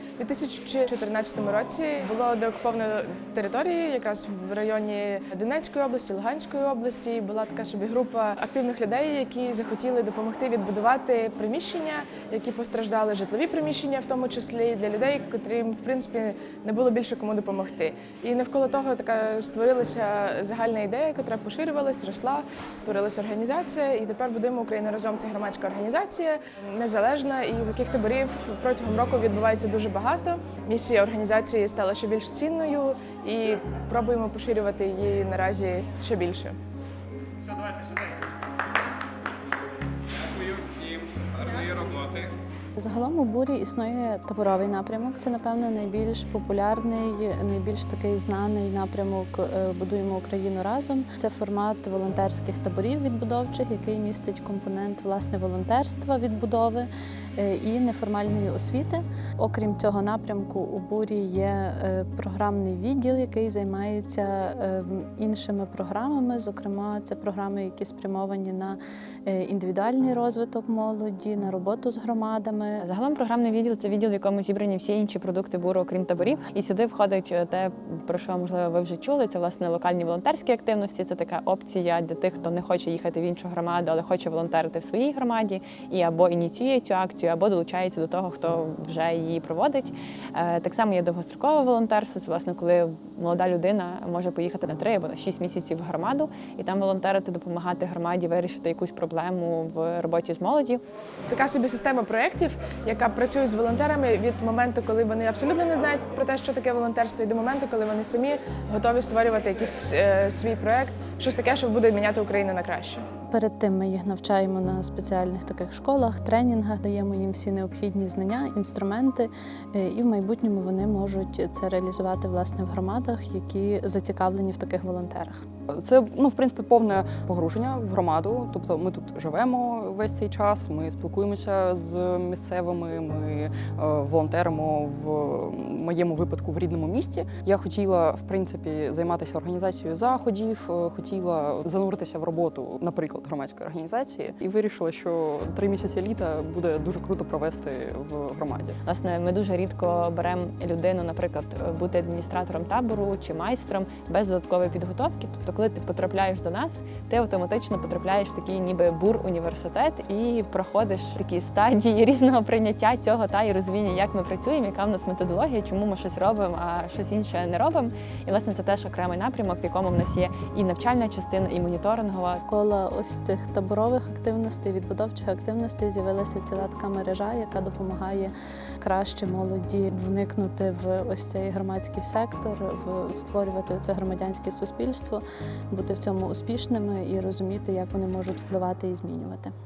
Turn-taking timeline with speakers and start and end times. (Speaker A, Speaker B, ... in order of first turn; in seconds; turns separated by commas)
Speaker A: 0.2-36.6, Speaker B: 42.8-68.8, Speaker B: 69.3-72.8, Speaker C: 72.8-100.8, Speaker A: 101.3-113.0, Speaker B: 113.4-125.4, Speaker D: 125.7-148.8, Speaker C: 148.9-172.4, Speaker B: 172.5-189.5